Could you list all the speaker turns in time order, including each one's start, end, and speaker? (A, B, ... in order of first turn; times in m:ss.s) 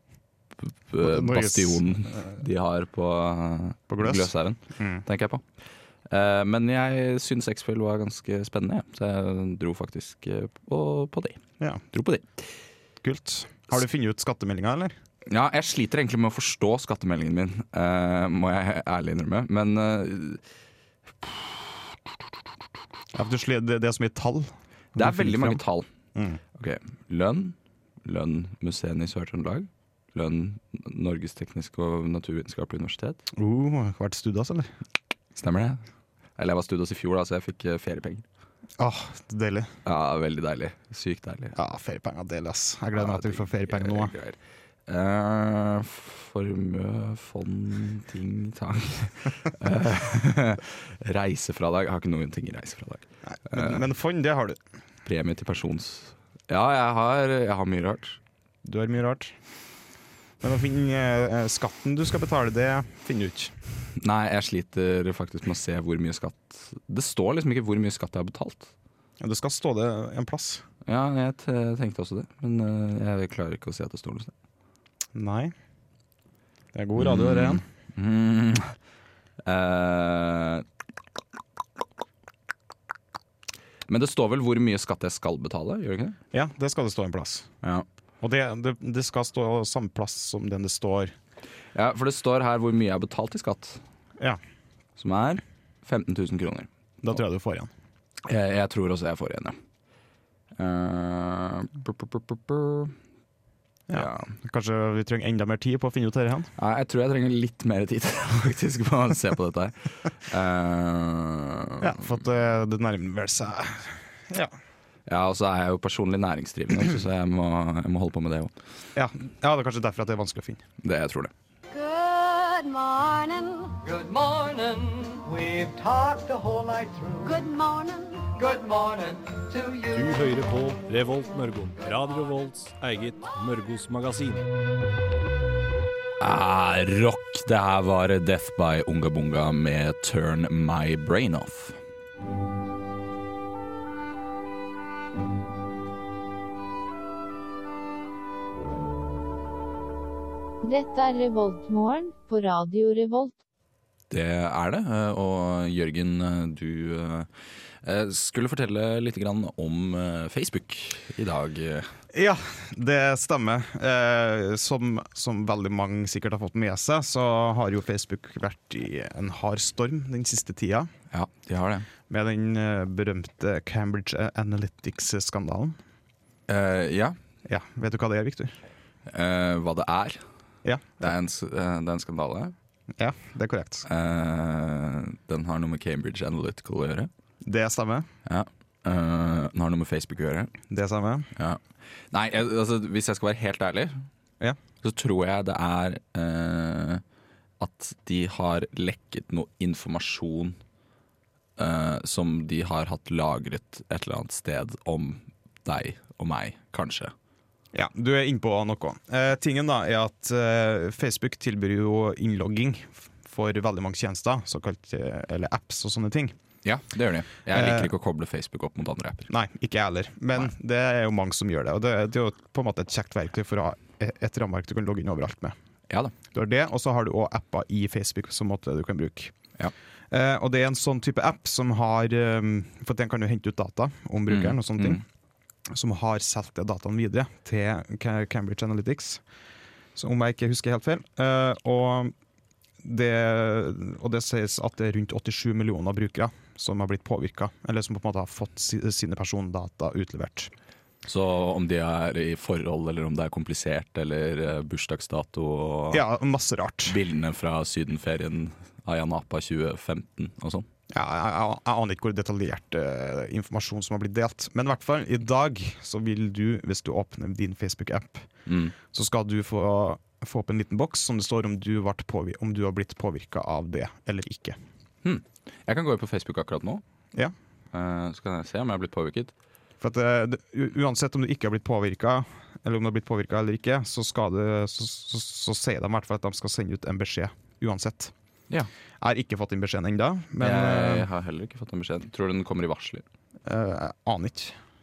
0:00.6-0:05.4 A
0:01.0-0:02.2 B
0:03.9-0:05.0 B
0:06.1-0:11.4 A
0:11.9-0:12.3 A
0:13.0-0:15.0 B
0:15.2-0:20.4 A
0:21.2-0:21.6 A
0:23.1-0:25.6 B
0:25.0-0:25.9 A
0:26.1-0:26.4 B
0:26.6-0:33.2 A
0:33.4-0:34.7 B
0:35.4-0:35.8 A
0:36.4-0:38.2 A
0:38.8-0:39.7 B
0:39.8-0:41.5 A
0:41.5-0:44.1 B
0:43.0-0:53.8 A
0:53.4-0:54.6 B
0:55.0-0:58.2 A
0:58.6-0:59.3 B
1:00.4-1:03.5 B
1:04.0-1:08.7 A
1:09.2-1:10.6 B
1:10.8-1:14.3 A
1:15.1-1:15.5 B
1:16.7-1:17.6 B
1:17.0-1:18.7 A
1:19.4-1:20.6 A
1:23.9-1:26.2 A
1:26.3-1:27.5 B
1:28.2-1:31.1 B
1:31.7-1:33.8 A
1:35.0-1:36.7 A
1:37.0-1:37.7 B
1:38.2-1:39.6 A
1:40.6-1:42.9 A
1:43.9-1:46.5 B
1:43.9-1:44.3 A
1:46.6-1:52.0 A
1:51.8-1:54.5 B
1:55.1-1:58.5 A
1:58.9-2:00.6 B
2:00.8-2:01.3 A
2:01.7-2:03.8 C
2:03.8-2:07.3 D
2:07.2-2:08.4 C
2:08.6-2:09.8 D
2:09.9-2:14.5 E
2:16.2-2:21.8 A
2:30.6-2:33.4 F
2:34.1-2:37.3 A
2:37.8-2:41.9 A
2:42.1-2:50.9 B
2:51.1-2:51.9 A
2:52.1-2:55.8 B
2:56.5-2:57.2 A
2:57.4-2:58.6 B
2:59.1-3:00.2 A
3:00.6-3:01.0 B
3:01.0-3:02.5 A
3:03.0-3:03.8 B
3:03.8-3:07.1 A
3:07.4-3:08.1 B
3:08.2-3:10.5 A
3:10.7-3:11.3 B
3:11.4-3:14.1 A
3:14.8-3:17.0 A
3:17.6-3:20.6 A
3:21.6-3:27.1 A
3:27.7-3:36.3 B
3:36.6-3:39.3 A
3:37.5-3:37.9 B
3:39.3-3:45.5 B
3:45.9-3:46.1 A
3:46.3-3:49.3 B
3:50.1-3:55.0 B
3:54.3-3:55.0 A
3:55.7-3:59.2 B
4:00.0-4:02.1 B
4:02.8-4:10.5 B
4:11.0-4:16.0 A
4:15.9-4:17.0 B
4:16.8-4:20.7 A
4:20.9-4:28.3 B
4:28.4-4:28.7 A
4:28.8-4:34.6 B
4:35.0-4:36.8 A
4:37.7-4:39.3 A
4:39.8-4:48.1 B
4:49.0-4:51.1 B
4:50.4-4:53.0 A
4:53.4-4:54.6 B